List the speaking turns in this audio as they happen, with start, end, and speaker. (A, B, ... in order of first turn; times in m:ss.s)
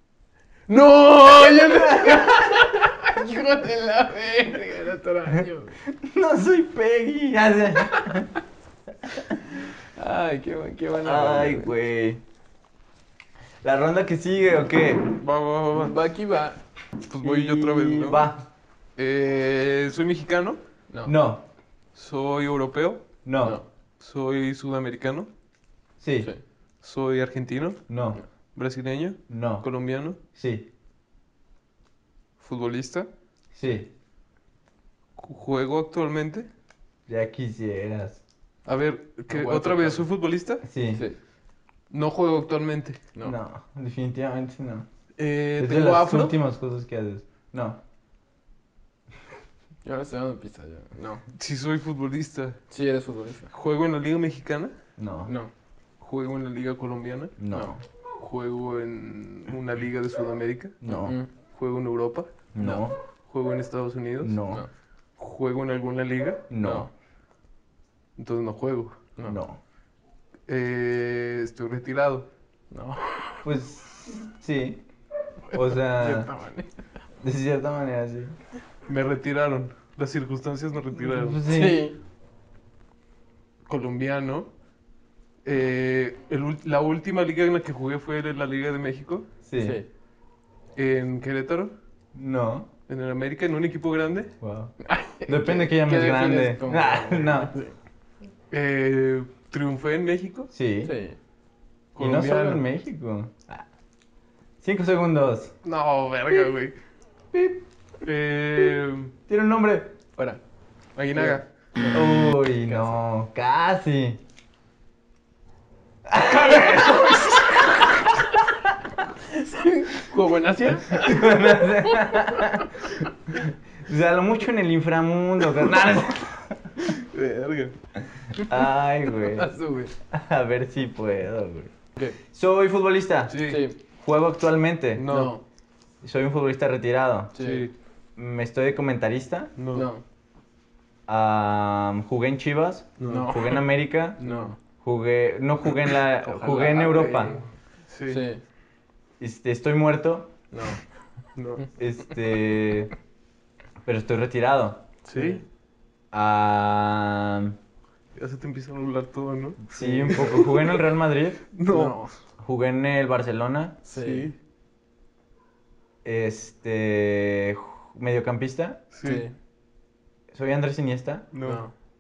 0:00.7-0:05.8 A
0:01.6-0:02.4 B
0:05.9-0:08.3 B
0:09.0-0:09.4 B
0:09.9-0:11.7 A
0:11.0-0:12.2 B
0:13.6-0:15.1 B
0:15.2-0:16.0 C
0:15.8-0:16.6 A
0:17.1-0:18.3 C
0:17.2-0:18.5 B
0:19.0-0:20.6 C
0:20.9-0:21.2 A
0:21.0-0:21.4 B
0:22.0-0:23.1 C
0:23.2-0:23.6 B
0:23.4-0:23.6 A
0:24.0-0:25.3 C
0:26.0-0:26.3 B
0:26.8-0:27.8 C
0:27.9-0:28.2 B
0:28.5-0:30.2 C
0:29.3-0:29.7 B
0:30.4-0:30.7 B
0:32.4-0:33.1 C
0:33.5-0:33.9 B
0:35.2-0:36.5 C
0:37.1-0:38.2 B
0:38.7-0:40.6 C
0:39.3-0:40.0 A
0:40.6-0:41.0 B
0:41.9-0:43.0 C
0:43.2-0:44.9 B
0:45.2-0:46.4 C
0:45.6-0:47.8 B
0:49.8-0:51.2 A
0:51.4-0:52.6 C
0:52.7-0:53.5 A
0:53.5-0:54.7 C
0:55.0-0:55.3 B
0:55.3-0:55.5 A
0:56.0-0:57.4 C
0:57.4-0:57.8 B
0:57.5-0:57.8 A
0:58.2-1:00.8 C
1:00.8-1:01.2 B
1:00.9-1:01.3 A
1:01.5-1:02.3 C
1:02.5-1:03.0 B
1:02.6-1:02.9 A
1:03.3-1:04.4 C
1:04.2-1:04.7 B
1:05.2-1:06.5 C
1:06.5-1:06.9 B
1:06.6-1:06.9 A
1:08.2-1:09.0 C
1:09.2-1:09.6 B
1:10.5-1:12.3 C
1:12.7-1:13.5 A
1:13.4-1:14.8 B
1:15.5-1:16.3 B
1:15.5-1:16.7 A
1:17.2-1:18.4 B
1:18.9-1:21.4 C
1:21.0-1:21.8 B
1:21.5-1:22.0 A
1:23.7-1:24.5 C
1:25.4-1:29.3 C
1:29.5-1:29.8 B
1:29.6-1:29.9 A
1:30.8-1:31.7 C
1:32.2-1:32.7 B
1:32.9-1:34.3 C
1:34.4-1:34.8 B
1:34.8-1:37.7 A
1:35.3-1:37.5 B
1:38.5-1:40.5 C
1:40.5-1:40.9 B
1:40.8-1:41.2 A
1:42.0-1:42.7 C
1:42.0-1:43.7 B
1:44.6-1:45.5 B
1:45.6-1:46.8 C
1:47.3-1:47.7 B
1:48.0-1:49.1 C
1:49.3-1:49.9 B
1:50.2-1:50.4 A
1:51.0-1:51.5 C
1:51.2-1:52.1 A
1:51.9-1:54.2 B
1:56.1-1:57.4 B
1:56.5-1:57.4 C
1:59.2-2:01.5 A
2:00.9-2:06.8 B
2:06.8-2:07.8 C
2:08.4-2:09.5 B
2:09.3-2:09.9 A
2:10.1-2:11.7 B
2:12.3-2:13.4 B
2:13.3-2:13.6 C
2:13.4-2:13.8 A
2:14.0-2:15.1 B
2:15.0-2:15.4 C
2:15.1-2:15.4 A
2:16.0-2:17.3 B
2:17.3-2:17.7 A
2:17.4-2:17.7 C
2:18.2-2:19.5 B
2:19.6-2:19.9 C
2:19.7-2:20.0 A
2:21.1-2:24.2 B
2:23.0-2:23.6 C
2:23.0-2:23.6 A
2:24.2-2:24.6 A
2:24.2-2:24.5 C
2:24.8-2:27.4 B
2:26.3-2:28.3 C
2:26.6-2:27.4 A
2:28.1-2:28.4 A
2:29.2-2:30.3 B
2:30.5-2:30.8 A
2:31.4-2:31.7 C
2:31.8-2:32.9 B
2:33.8-2:34.8 B
2:35.0-2:35.4 A
2:35.1-2:35.4 C
2:36.1-2:37.6 B
2:38.2-2:40.7 C
2:39.7-2:41.4 B
2:39.7-2:40.3 A
2:41.5-2:42.0 C
2:41.7-2:42.1 A
2:42.4-2:43.8 B
2:43.9-2:44.3 A
2:43.9-2:44.4 C
2:46.0-2:48.8 B
2:48.9-2:49.2 C
2:49.0-2:49.3 A
2:50.3-2:51.3 B
2:51.3-2:51.6 C
2:51.4-2:51.7 A